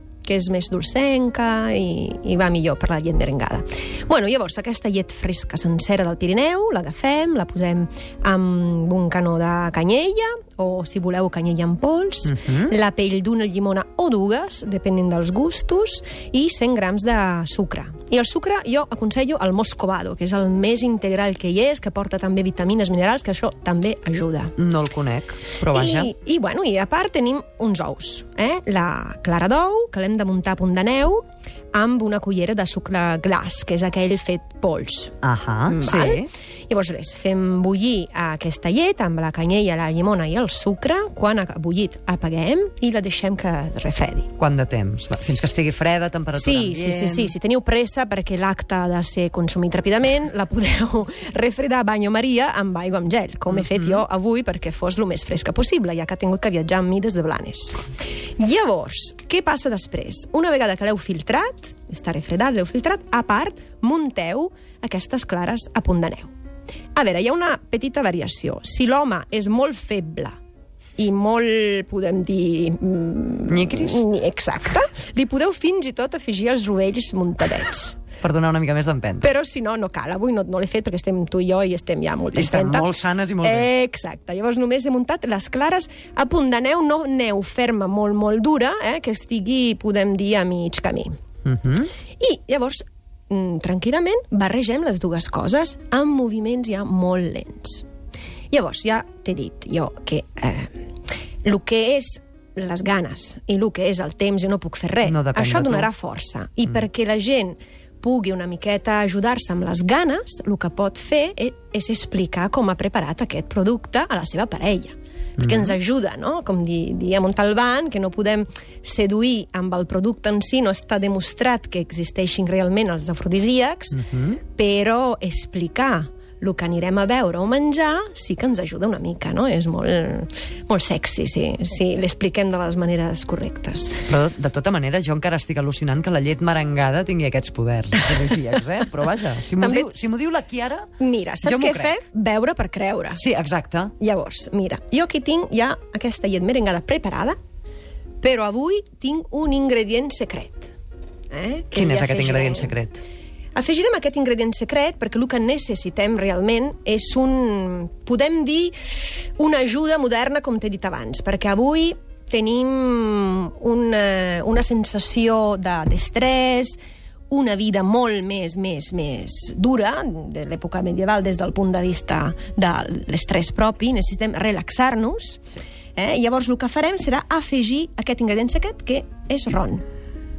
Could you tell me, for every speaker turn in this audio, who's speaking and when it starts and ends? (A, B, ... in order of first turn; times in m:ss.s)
0:00.2-0:24.6 A
0:12.2-0:12.8 B
0:24.6-0:26.1 B
0:25.7-0:35.2 A
0:35.2-0:36.3 B
0:35.7-0:44.3 A
0:44.4-0:47.3 B
0:46.3-0:57.9 A
0:53.5-0:54.0 B
0:58.4-1:06.3 A
1:07.0-1:10.4 A
1:11.0-1:18.0 A
1:13.5-1:14.1 B
1:18.2-1:19.3 B
1:19.2-1:31.1 A
1:22.3-1:23.7 B
1:31.4-1:31.9 B
1:32.2-1:37.8 A
1:38.5-1:40.9 A
1:41.4-2:14.0 A
1:45.0-1:45.9 B
1:55.4-1:55.8 B
2:03.9-2:04.4 B
2:14.1-2:20.9 B
2:19.6-2:19.9 A
2:21.0-2:23.2 A
2:21.4-2:22.0 B
2:23.2-2:23.9 B
2:24.0-2:27.4 A
2:28.2-2:30.7 A
2:31.3-2:32.8 A
2:31.7-2:33.0 B
2:33.6-2:46.8 A
2:47.3-2:55.4 A
2:56.0-2:59.8 A